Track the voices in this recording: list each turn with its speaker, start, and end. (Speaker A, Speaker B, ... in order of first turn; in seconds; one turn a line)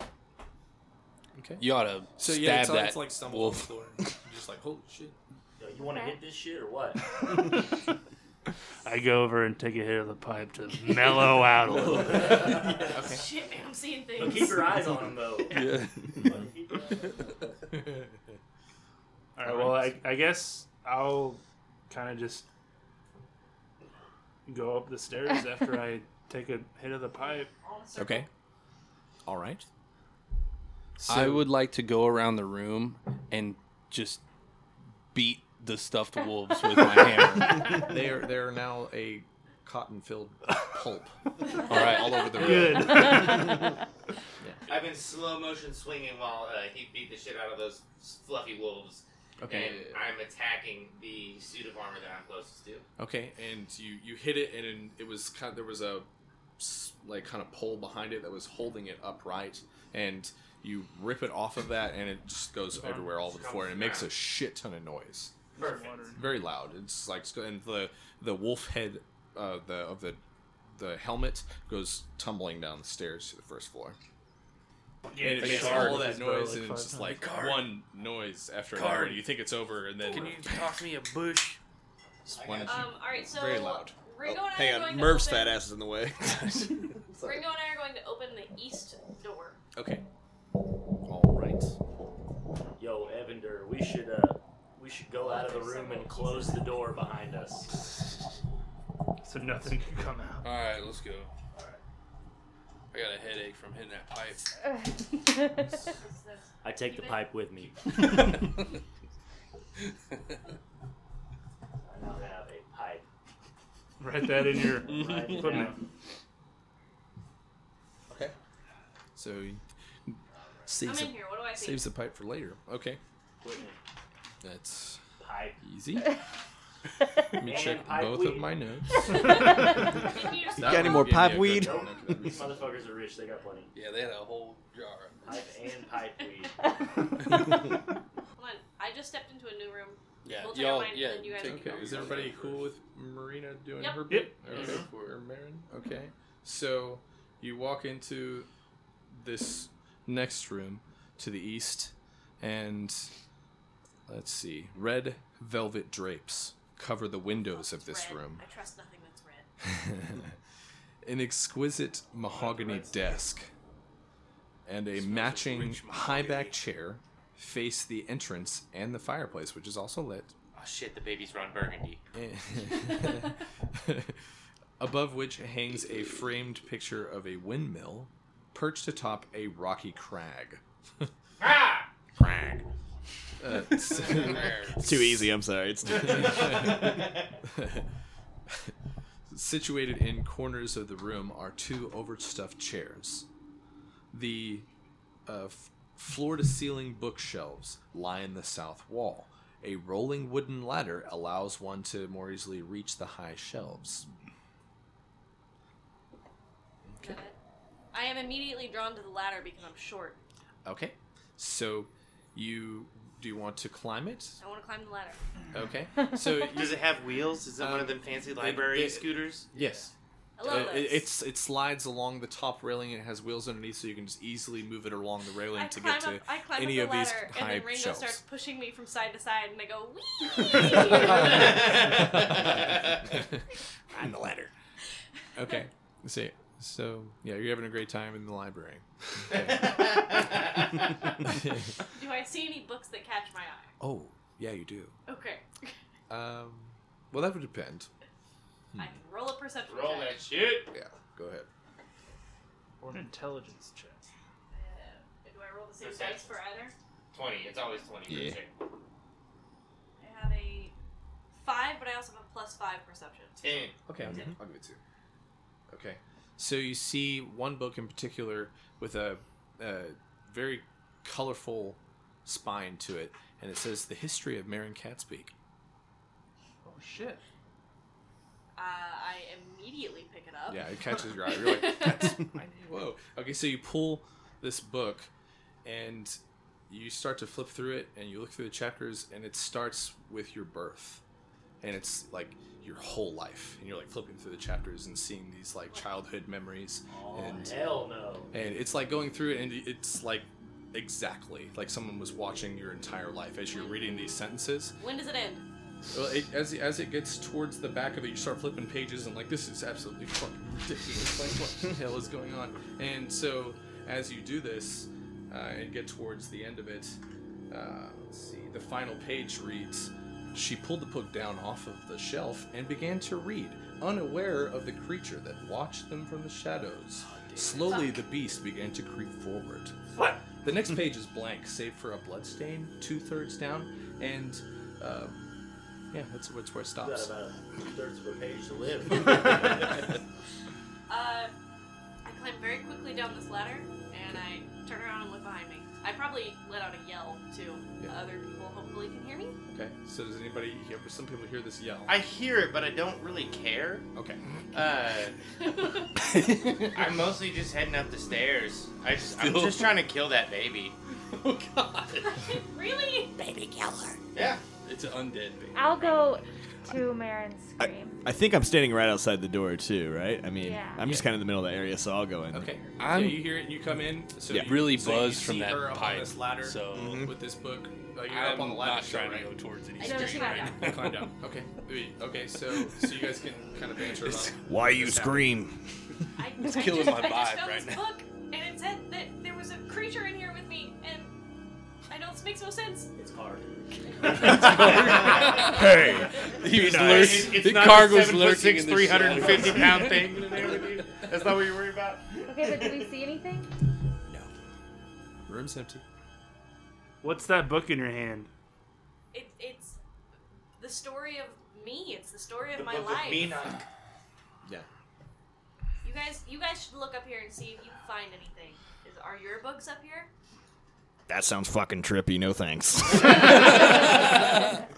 Speaker A: 1.3-1.6
Speaker B: 1.6-3.7
Speaker A: 2.1-5.2
Speaker C: 5.6-7.4
Speaker D: 5.8-6.2
Speaker E: 8.8-12.6
Speaker B: 11.8-12.5
Speaker C: 12.2-12.8
Speaker F: 12.8-15.0
Speaker A: 12.8-13.2
Speaker C: 14.2-15.6
Speaker B: 15.5-17.4
Speaker C: 16.2-17.6
Speaker E: 19.4-22.4
Speaker A: 19.4-20.0
Speaker E: 24.4-27.5
Speaker F: 27.1-28.3
Speaker A: 27.9-28.3
Speaker A: 29.2-29.6
Speaker A: 31.0-31.5
Speaker B: 31.0-34.2
Speaker B: 35.1-37.7
Speaker A: 37.6-43.5
Speaker B: 41.7-42.7
Speaker E: 42.3-43.6
Speaker G: 44.7-52.8
Speaker A: 49.4-50.0
Speaker A: 53.0-56.1
Speaker A: 56.6-65.3
Speaker E: 62.8-63.0
Speaker G: 63.1-64.1
Speaker E: 65.5-66.4
Speaker G: 65.6-65.9
Speaker A: 66.1-74.0
Speaker E: 75.1-77.3
Speaker A: 75.2-80.7
Speaker G: 75.4-75.8
Speaker B: 78.8-79.0
Speaker G: 80.1-81.6
Speaker B: 80.4-81.0
Speaker C: 82.3-82.8
Speaker A: 82.3-83.9
Speaker F: 82.7-85.6
Speaker H: 84.2-87.4
Speaker F: 87.2-89.6
Speaker A: 89.7-90.0
Speaker A: 91.0-91.8
Speaker C: 92.8-97.7
Speaker F: 95.2-96.9
Speaker E: 99.2-100.5
Speaker B: 100.4-101.3
Speaker C: 101.5-101.8
Speaker B: 102.9-104.5
Speaker F: 105.7-107.3
Speaker C: 106.6-107.9
Speaker B: 109.8-110.1
Speaker C: 111.8-113.0
Speaker E: 114.0-115.8
Speaker C: 114.8-115.8
Speaker B: 115.2-115.6
Speaker A: 119.1-123.0
Speaker F: 120.8-121.8
Speaker C: 123.4-123.8
Speaker A: 124.4-125.0
Speaker C: 125.2-125.6
Speaker A: 125.6-126.1
Speaker A: 127.3-130.0
Speaker C: 127.4-128.5
Speaker F: 129.1-131.3
Speaker H: 130.6-131.9
Speaker A: 130.6-132.7
Speaker C: 131.5-133.7
Speaker B: 133.7-135.2
Speaker C: 135.2-136.5
Speaker F: 138.3-142.2
Speaker B: 140.2-142.7
Speaker A: 141.4-148.5
Speaker E: 144.1-144.4
Speaker B: 144.4-145.3
Speaker G: 144.5-144.9
Speaker A: 149.1-153.1
Speaker A: 154.1-158.4
Speaker F: 157.4-159.5
Speaker A: 159.6-160.3
Speaker A: 161.0-163.5
Speaker C: 162.3-163.2
Speaker A: 164.6-170.3
Speaker B: 164.9-166.6
Speaker G: 170.5-172.0
Speaker A: 172.1-174.2
Speaker A: 174.8-181.1
Speaker G: 181.4-181.9
Speaker A: 182.2-182.6
Speaker A: 183.4-185.3
Speaker B: 183.9-184.8
Speaker H: 184.7-187.1
Speaker A: 186.0-186.9
Speaker A: 187.4-187.9
Speaker A: 189.3-193.2
Speaker A: 194.1-194.7
Speaker A: 195.2-204.1
Speaker A: 206.9-207.2
Speaker F: 207.0-207.3
Speaker F: 207.9-210.2
Speaker A: 210.6-214.4
Speaker F: 214.4-215.2
Speaker A: 215.5-216.8
Speaker G: 216.4-219.5
Speaker A: 217.6-219.9
Speaker F: 220.4-221.1
Speaker A: 220.4-228.2
Speaker F: 225.5-232.0
Speaker A: 230.6-234.5
Speaker A: 235.3-239.9
Speaker G: 239.3-240.7
Speaker A: 241.2-241.7
Speaker F: 241.9-243.7
Speaker A: 243.8-244.9
Speaker F: 245.1-245.7
Speaker A: 246.1-247.9
Speaker F: 248.8-250.2
Speaker G: 249.6-250.7
Speaker A: 250.7-251.5
Speaker E: 252.8-254.0
Speaker F: 254.5-256.7
Speaker G: 255.8-256.3
Speaker G: 257.1-258.5
Speaker F: 260.0-260.7
Speaker F: 261.4-263.6
Speaker G: 263.4-263.8
Speaker A: 263.9-264.8
Speaker A: 265.7-275.3
Speaker E: 276.6-277.2
Speaker F: 278.6-282.1
Speaker A: 280.5-285.1
Speaker A: 285.6-291.0
Speaker A: 291.6-297.6
Speaker C: 296.9-298.3
Speaker A: 298.3-304.8
Speaker F: 303.5-304.1
Speaker F: 304.8-305.4
Speaker A: 305.9-317.0
Speaker A: 317.5-329.8
Speaker C: 327.1-327.8
Speaker A: 330.4-335.3
Speaker A: 335.9-337.1
Speaker C: 336.8-339.8
Speaker F: 340.9-341.3
Speaker F: 342.0-349.4
Speaker A: 349.5-352.0
Speaker G: 351.9-353.9
Speaker A: 353.9-354.2
Speaker G: 354.5-355.1
Speaker F: 355.4-355.9
Speaker B: 356.0-356.9
Speaker G: 356.7-360.7
Speaker B: 359.0-359.7
Speaker B: 361.1-362.2
Speaker F: 362.0-363.1
Speaker G: 364.1-364.4
Speaker B: 364.6-365.6
Speaker D: 365.5-368.0
Speaker H: 367.6-372.5
Speaker D: 370.4-370.9
Speaker A: 370.8-371.1
Speaker A: 372.3-379.3
Speaker B: 372.8-373.3
Speaker H: 374.3-374.6
Speaker B: 374.3-377.1
Speaker H: 376.7-377.1
Speaker B: 378.0-381.1
Speaker F: 379.8-380.9
Speaker D: 379.8-380.7
Speaker A: 380.6-385.2
Speaker H: 384.3-385.6
Speaker F: 386.2-391.1
Speaker B: 386.4-387.9
Speaker F: 391.9-392.9
Speaker C: 392.9-393.5
Speaker F: 393.9-395.5
Speaker B: 394.1-401.0
Speaker H: 395.4-397.2
Speaker G: 396.8-402.8
Speaker D: 402.2-403.5
Speaker A: 405.3-405.8
Speaker E: 407.0-408.3
Speaker F: 409.1-409.8
Speaker F: 410.6-413.4
Speaker C: 412.5-413.6
Speaker F: 415.8-420.1
Speaker H: 421.1-423.6
Speaker G: 423.1-424.0